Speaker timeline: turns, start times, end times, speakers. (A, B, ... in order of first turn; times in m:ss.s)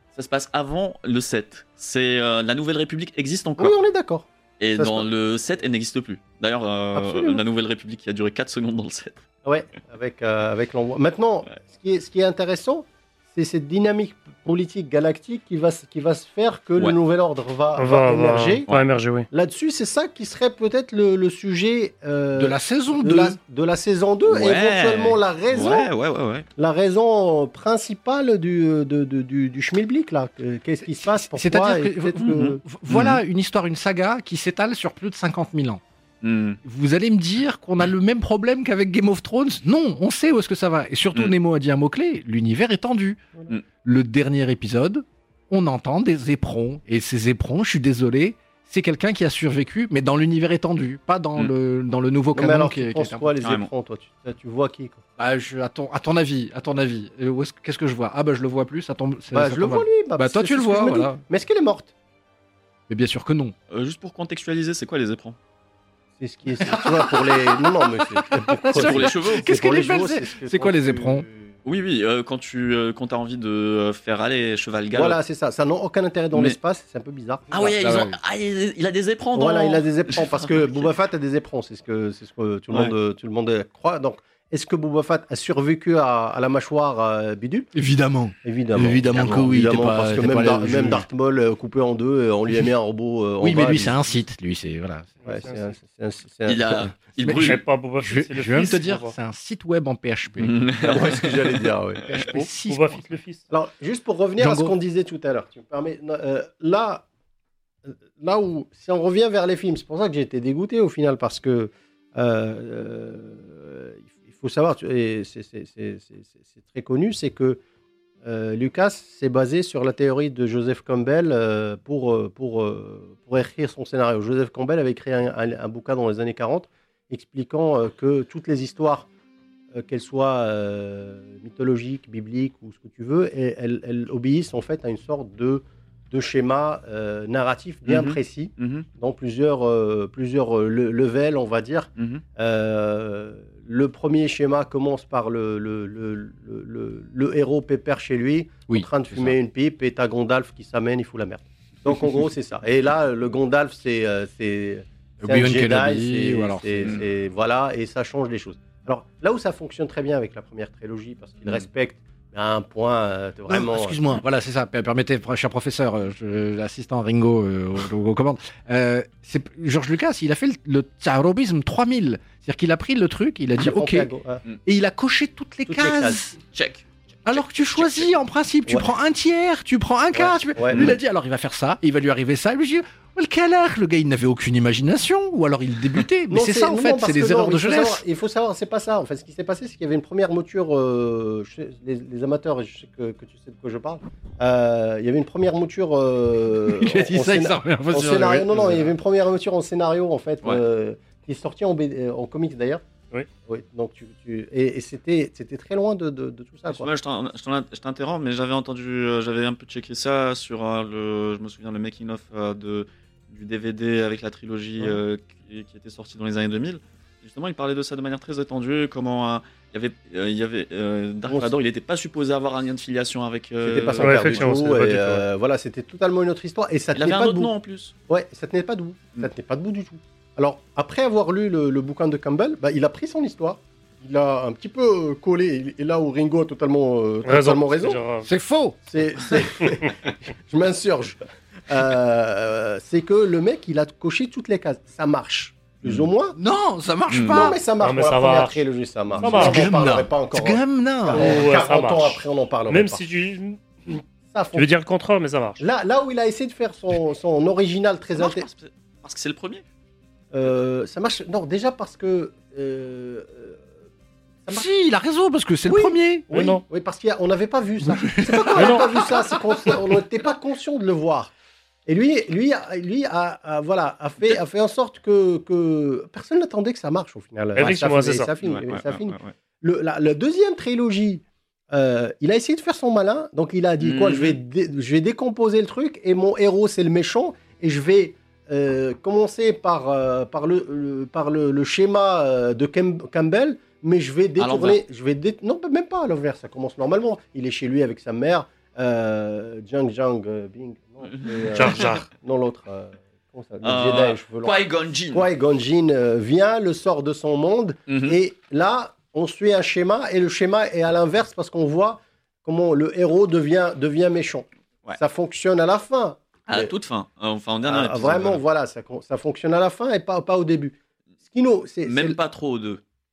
0:00.1-0:03.8 A
0:03.6-0:05.1 B
0:04.6-0:09.2 A
0:06.9-0:07.4 B
0:09.4-0:18.7 B
0:17.8-0:19.3 C
0:19.3-0:25.9 B
0:22.3-0:23.4 D
0:24.2-0:26.5 A
0:26.6-0:32.6 B
0:31.0-0:35.8 D
0:32.2-0:33.2 A
0:36.2-0:36.6 A
0:36.6-0:43.2 D
0:43.8-0:53.3 D
0:52.3-0:55.0 B
0:53.4-0:53.7 A
0:55.2-1:01.2 D
0:59.3-1:01.9 B
1:02.9-1:03.5 D
1:03.7-1:05.4 A
1:06.2-1:11.5 B
1:06.6-1:11.2 D
1:08.8-1:09.5 A
1:11.6-1:15.2 A
1:14.9-1:17.7 B
1:17.5-1:20.9 A
1:17.6-1:18.2 D
1:19.3-1:27.7 B
1:27.7-1:31.1 D
1:28.4-1:34.1 B
1:33.4-1:35.2 D
1:35.2-1:35.6 C
1:35.2-1:36.9 B
1:36.5-1:37.6 A
1:37.2-1:40.5 D
1:37.3-1:39.1 C
1:40.4-1:41.6 A
1:40.8-1:42.5 B
1:42.1-1:43.2 D
1:42.6-1:43.4 C
1:43.5-1:47.0 B
1:44.4-1:44.8 D
1:48.2-1:57.6 B
1:58.2-2:09.1 B
2:09.7-2:44.0 B
2:17.8-2:18.9 A
2:22.0-2:22.2 A
2:28.7-2:29.4 D
2:35.2-2:37.0 D
2:43.5-2:54.1 D
2:53.6-2:54.4 B
2:54.7-2:56.4 D
2:55.7-2:56.2 B
2:56.5-2:58.1 A
2:57.2-3:08.0 D
3:00.1-3:00.9 B
3:06.3-3:22.8 B
3:16.7-3:18.9 D
3:23.5-3:26.9 B
3:26.7-3:44.5 A
3:41.2-3:41.5 B
3:43.6-3:47.5 B
3:44.0-3:45.2 C
3:47.0-3:47.9 A
3:48.1-3:58.0 B
3:57.2-3:58.3 C
3:58.2-3:58.8 D
3:58.9-4:06.4 B
4:06.3-4:07.6 D
4:07.1-4:07.5 A
4:07.3-4:13.0 B
4:07.8-4:08.6 C
4:09.2-4:09.7 C
4:09.2-4:11.5 D
4:11.1-4:13.6 C
4:14.3-4:14.7 B
4:14.5-4:15.6 C
4:15.6-4:18.4 B
4:18.2-4:19.6 A
4:20.3-4:23.6 B
4:24.5-4:26.2 D
4:25.7-4:31.3 B
4:26.3-4:26.6 C
4:27.8-4:29.8 D
4:28.6-4:28.8 C
4:31.9-5:04.6 B
4:37.5-4:38.3 C
4:38.4-4:39.3 A
4:43.8-4:44.4 A
4:54.4-4:54.8 A
5:01.0-5:01.9 A
5:01.6-5:02.0 C
5:03.6-5:05.3 A
5:05.1-5:16.7 B
5:07.9-5:08.2 A
5:16.5-5:18.4 A
5:17.7-5:20.8 B
5:21.3-5:22.2 B
5:21.8-5:22.8 A